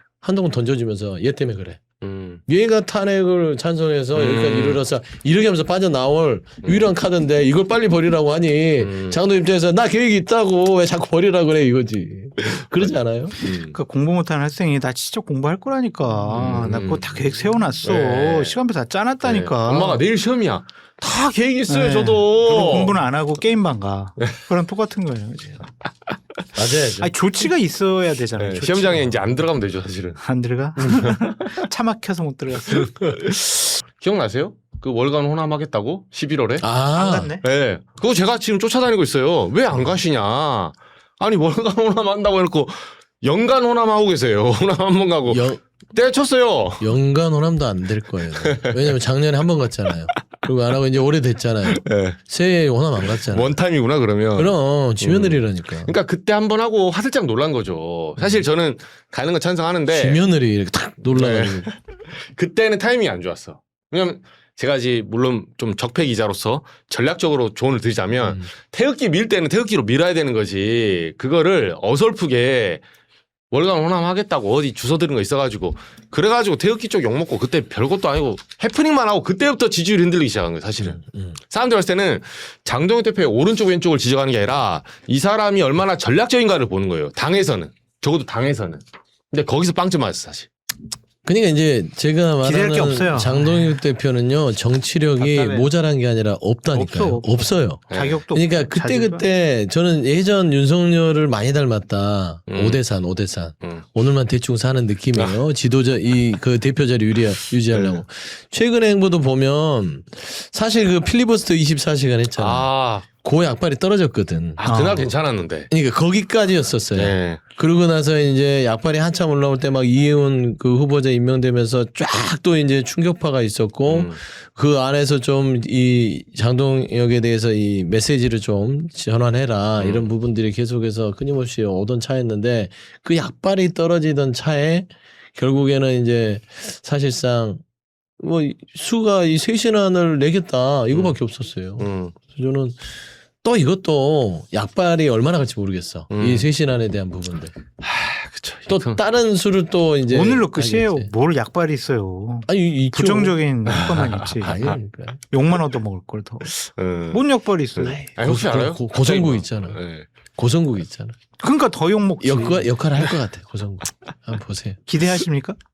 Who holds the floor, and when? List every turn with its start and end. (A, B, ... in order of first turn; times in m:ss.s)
0:00.2-0:01.8 A
0:02.0-0:02.4 B
0:02.5-0:13.5 A
0:04.1-0:04.8 B
0:06.6-0:06.9 B
0:08.8-0:09.2 B
0:12.8-0:13.7 B
0:13.7-0:20.0 C
0:16.2-0:17.1 B
0:17.8-0:18.6 B
0:19.2-0:23.0 B
0:21.7-0:25.7 C
0:26.5-0:27.1 A
0:27.0-0:29.1 C
0:28.4-0:30.2 B
0:30.2-0:32.9 C
0:30.8-0:31.0 A
0:32.7-0:36.6 B
0:36.6-0:37.3 A
0:37.0-0:37.4 C
0:37.4-0:46.9 B
0:45.3-0:45.6 A
0:46.8-0:53.5 A
0:48.4-0:48.8 B
0:51.7-0:52.2 B
0:53.0-1:00.2 B
0:54.4-0:56.0 A
0:59.9-1:01.7 A
1:01.1-1:12.8 B
1:13.5-1:30.5 B
1:20.8-1:21.4 A
1:31.2-1:52.7 A
1:32.4-1:33.8 C
1:35.2-1:35.7 C
1:36.7-1:39.3 C
1:37.9-1:38.2 B
1:42.5-1:42.8 B
1:45.2-1:45.4 B
1:47.7-1:48.0 B
1:52.4-1:53.0 B
1:53.2-1:54.6 A
1:54.6-1:55.7 B
1:54.6-1:55.1 C
1:55.7-2:17.6 A
1:56.9-1:57.4 B
2:03.9-2:04.2 B
2:09.8-2:10.1 B
2:18.2-2:22.9 A
2:20.9-2:21.2 B
2:21.8-2:22.2 B
2:23.4-2:27.5 A
2:26.1-2:26.5 B
2:27.8-2:29.0 B
2:28.7-2:31.1 A
2:30.1-2:34.7 C
2:32.5-2:33.4 A
2:33.7-2:34.7 B
2:34.0-2:35.2 A
2:35.3-2:36.5 C
2:36.5-2:37.2 B
2:37.1-2:38.0 C
2:37.8-2:40.1 B
2:37.8-2:39.8 A
2:40.4-2:41.2 A
2:41.4-2:42.7 C
2:42.2-2:44.8 A
2:44.9-2:45.6 C